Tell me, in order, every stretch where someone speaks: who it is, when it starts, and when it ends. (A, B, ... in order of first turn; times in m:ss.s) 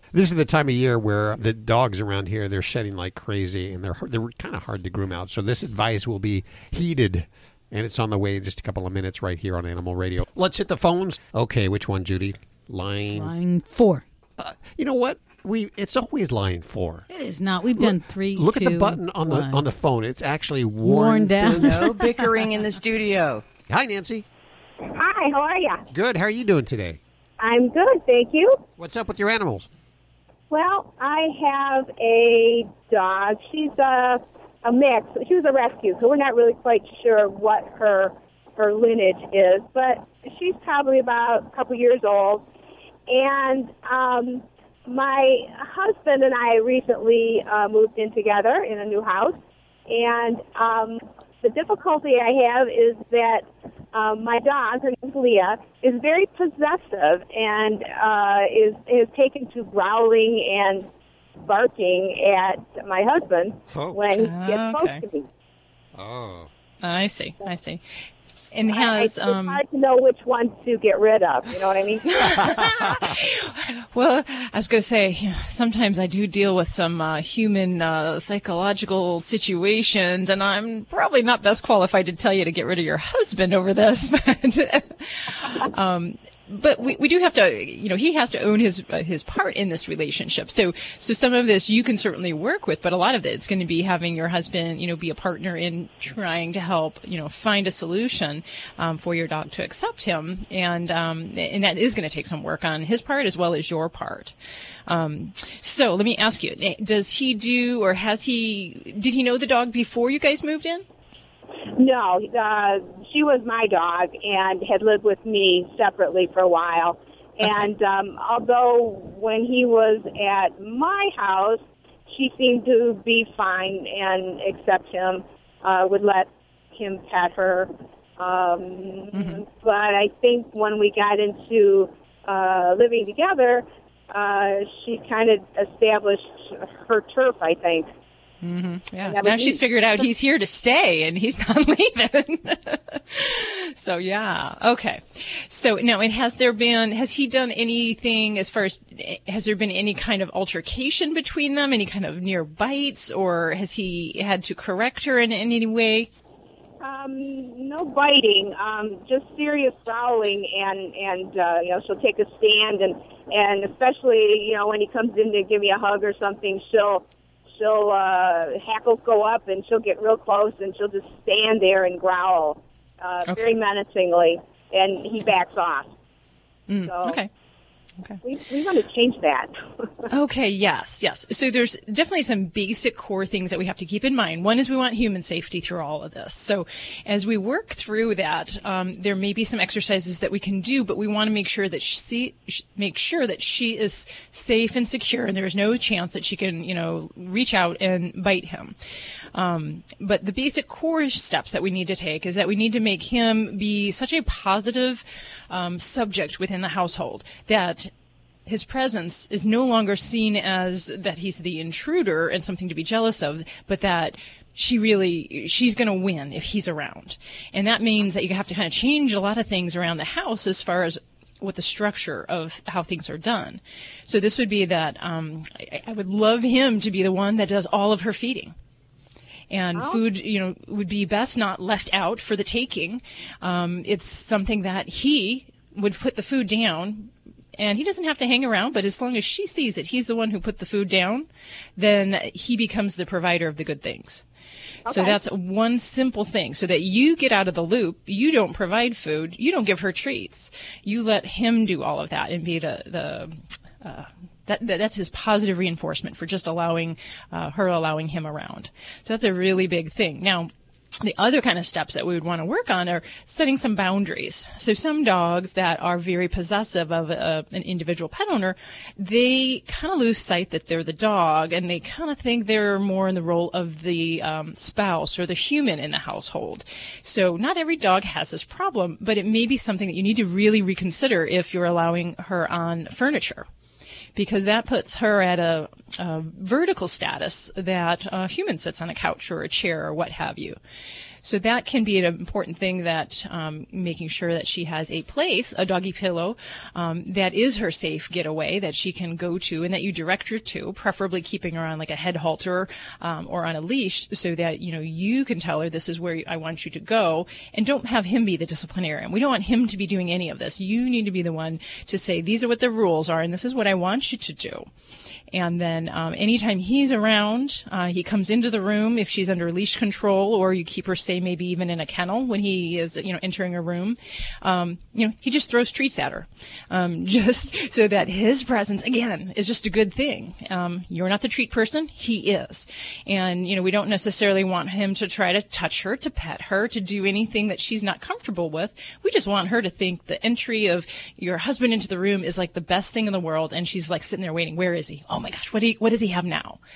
0:00.1-0:13.3 A
0:13.1-0:14.0 B
0:14.4-0:17.1 A
0:17.1-0:19.6 B
0:17.8-0:21.6 A
0:20.8-0:22.1 B
0:21.4-0:23.4 C
0:23.7-0:24.2 A
0:24.9-0:25.8 D
0:25.9-0:27.0 A
0:27.4-0:28.6 D
0:28.8-0:29.7 A
0:30.5-0:42.5 D
0:43.1-1:00.9 D
1:01.4-1:05.3 D
1:03.7-1:04.0 A
1:04.2-1:05.0 E
1:06.0-1:06.5 A
1:06.8-1:07.8 E
1:08.5-1:09.6 E
1:08.7-1:12.7 D
1:12.1-1:44.3 E
1:44.9-1:50.8 E
1:51.8-2:17.9 D
2:09.1-2:09.4 E
2:18.4-2:36.1 E
2:19.0-2:20.0 D
2:36.8-2:55.9 D
2:53.2-2:53.5 E
2:56.7-2:57.3 E
2:56.8-2:57.2 D
2:58.2-2:59.9 D
3:00.1-3:18.8 E
3:19.3-3:27.9 E
3:28.5-3:48.6 E
3:49.5-4:04.2 E
3:49.7-3:50.0 D
4:04.9-4:05.2 D
4:04.9-4:20.5 E
4:21.0-4:43.5 E
4:44.2-4:50.6 E
4:51.2-5:14.7 E
5:15.3-5:46.6 E